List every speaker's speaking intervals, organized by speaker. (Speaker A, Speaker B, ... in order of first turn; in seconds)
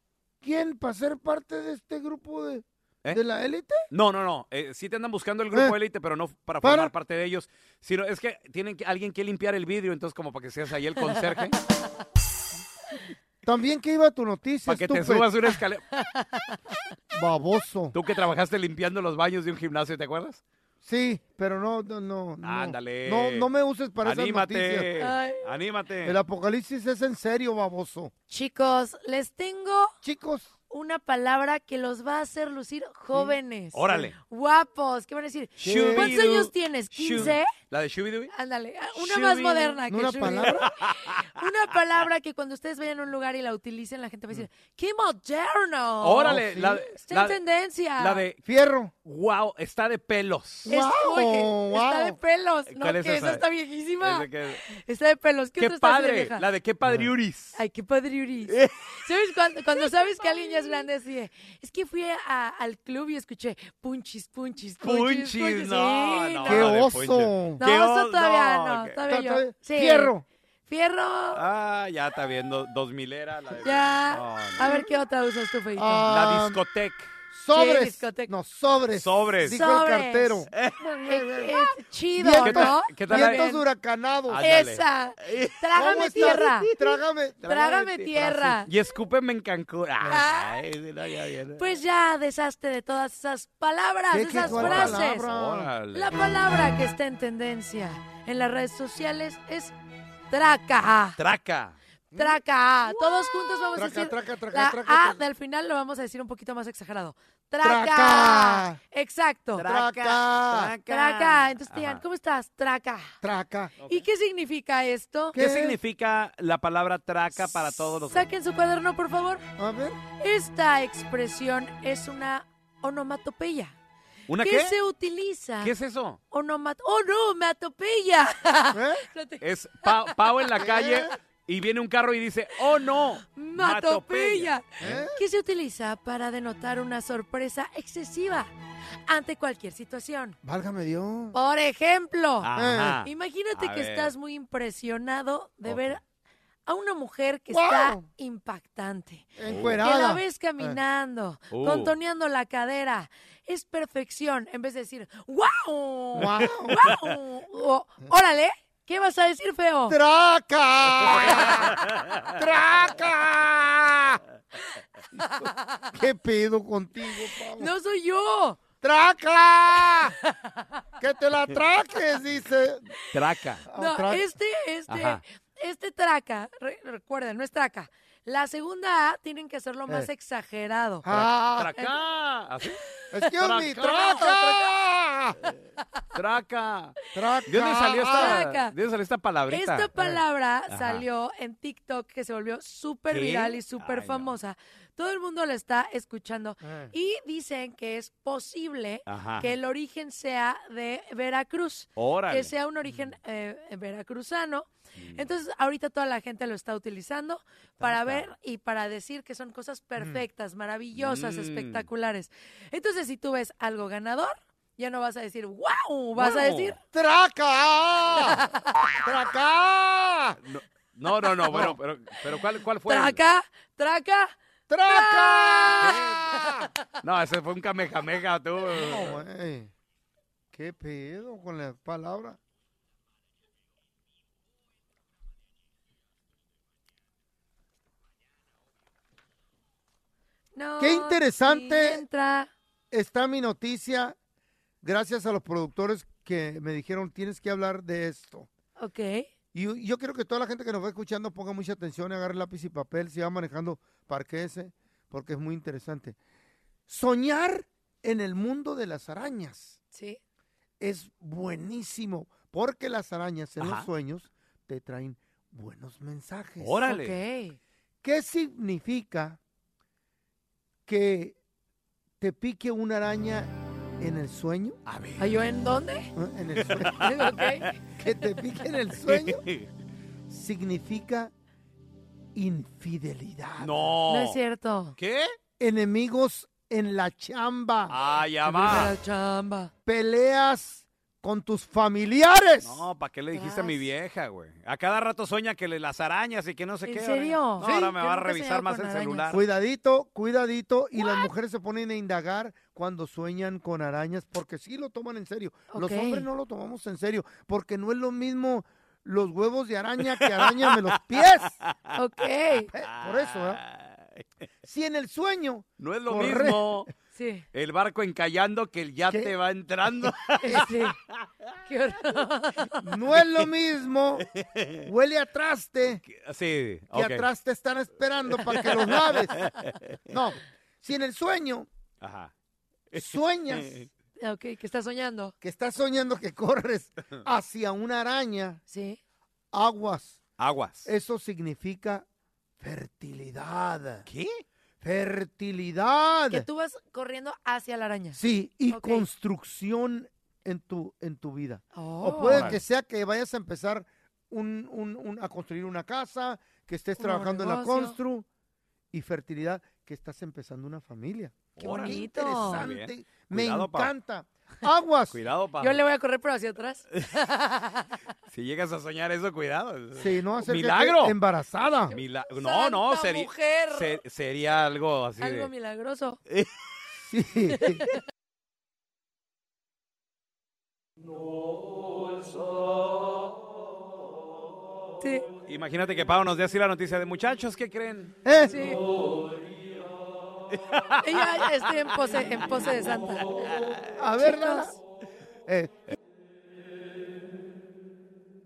Speaker A: 0.4-3.8, 6.6-6.9, 13.4-15.3, 17.1-17.9, 20.8-24.9, 26.0-28.1, 30.0-30.5, 35.6-36.1, 39.9-40.6, 46.2-46.8, 48.4-48.9, 50.7-52.2, 66.5-67.6, 69.1-70.2, 74.6-74.8, 75.8-76.6, 77.3-80.5, 82.2-84.5, 85.7-88.5, 94.1-95.7, 102.1-102.4, 103.7-105.2, 107.6-108.8, 109.6-110.7, 113.2-113.7, 115.3-115.8, 119.6-120.0, 128.7-129.0, 130.6-131.1, 134.8-135.2, 140.4-141.3, 142.6-143.0, 147.5-148.1, 149.4-150.8, 156.2-156.9, 159.9-164.2, 165.9-167.7, 168.8-170.1, 171.0-172.8, 173.7-174.3, 181.0-181.7, 183.1-185.4, 187.1-188.4, 196.6-196.9, 216.9-218.4, 219.0-220.4, 221.5-221.7, 224.7-226.7, 228.7-229.7, 230.5-232.4, 240.8-242.0, 242.9-244.2, 244.8-248.5, 249.5-256.1, 256.9-259.8, 260.8-266.8, 268.0-269.4, 270.9-271.4, 272.2-274.8, 276.1-277.1, 278.0-279.4, 280.3-281.3, 282.3-283.8, 285.6-287.9, 289.9-292.8, 299.3-311.6, 312.7-313.6, 314.6-316.8, 322.8-324.2, 324.8-326.0, 326.9-329.4, 330.1-331.7, 332.9-333.8, 335.4-338.6, 339.5-340.2, 340.8-342.1, 342.6-344.1, 344.8-346.4, 348.1-358.2, 358.9-365.2, 369.9-371.9, 377.1-377.8, 388.2-388.6, 393.9-394.7, 395.5-395.9
Speaker B: 3.9-11.6, 14.7-15.8, 17.9-20.4, 22.4-23.5, 24.0-26.2, 33.7-34.1, 35.6-38.3, 39.0-39.8, 40.5-41.3, 46.0-47.4, 48.0-48.4, 49.0-50.7, 52.7-53.4, 54.0-54.6, 55.6-57.6, 58.5-58.9, 64.8-69.0, 71.3-74.7, 76.1-77.1, 78.9-79.5, 80.5-81.5, 82.4-83.5, 84.3-86.7, 87.4-88.1, 88.7-91.6, 94.4-96.1, 101.2-101.8, 109.6-112.0, 113.8-114.0, 115.3-118.3, 124.3-124.7, 125.6-126.2, 129.4-135.0, 142.4-144.1, 145.6-146.0, 149.5-149.8, 151.5-151.9, 156.2-157.0, 161.0-162.3, 173.1-173.6, 174.9-175.2, 181.1-182.8, 183.3-184.6, 186.1-186.9, 187.5-189.9, 190.7-191.0, 193.1-194.3, 199.1-199.5, 202.0-202.5, 205.0-205.3, 207.8-208.3, 210.9-211.9, 216.2-216.8, 220.4-223.2, 225.7-226.2, 227.0-229.2, 263.6-263.9, 266.6-267.1, 274.9-275.3, 276.6-277.7, 279.0-279.7, 283.6-284.4, 285.0-285.3, 287.9-288.9, 292.6-299.4, 310.2-311.9, 312.6-314.2, 315.8-316.9, 317.5-320.7, 324.3-324.9, 326.0-327.2, 328.4-329.8, 332.0-332.3, 332.9-333.9, 340.4-340.9, 344.1-344.4, 352.3-352.6, 361.6-363.9, 365.1-365.8, 368.3-371.1, 371.9-375.5, 385.4-388.2, 390.5-392.7, 393.4-393.8
Speaker C: 11.1-11.4, 15.9-16.6, 25.0-25.4, 28.3-29.9, 30.7-37.5, 38.3-48.2, 50.7-56.4, 57.5-66.7, 67.6-70.1, 70.7-71.4, 73.6-76.1, 77.5-78.3, 79.4-80.5, 81.0-83.6, 84.4-86.8, 87.5-88.7, 90.1-90.6, 91.6-95.2, 95.9-99.7, 100.3-101.2, 102.1-109.6, 110.9-113.1, 113.9-115.3, 117.4-119.4, 120.2-123.7, 124.3-125.7, 126.3-130.5, 133.2-138.5, 139.1-140.3, 141.3-142.5, 143.0-146.0, 146.7-149.3, 149.8-160.0, 165.2-165.8, 167.6-168.6, 170.2-170.7, 173.7-181.0, 188.1-188.7, 189.5-216.8, 218.2-218.8, 222.9-224.3, 224.9-225.8, 240.5-242.5, 248.8-249.3, 259.9-260.2, 266.9-267.6, 275.2-276.1, 277.0-277.8, 284.1-284.9, 288.5-289.7, 293.3-293.8, 296.9-299.4, 301.0-301.3, 305.7-306.3, 311.9-312.7, 317.1-317.4, 320.4-320.9, 321.7-322.8, 334.2-335.3, 338.7-339.0, 346.3-348.2, 348.7-349.1, 351.7-352.6, 357.0-358.0, 361.6-362.6, 365.6-368.0, 371.9-374.0, 375.2-376.2, 377.6-377.9, 385.0-385.2, 388.5-388.8, 391.0-393.6, 394.2-394.8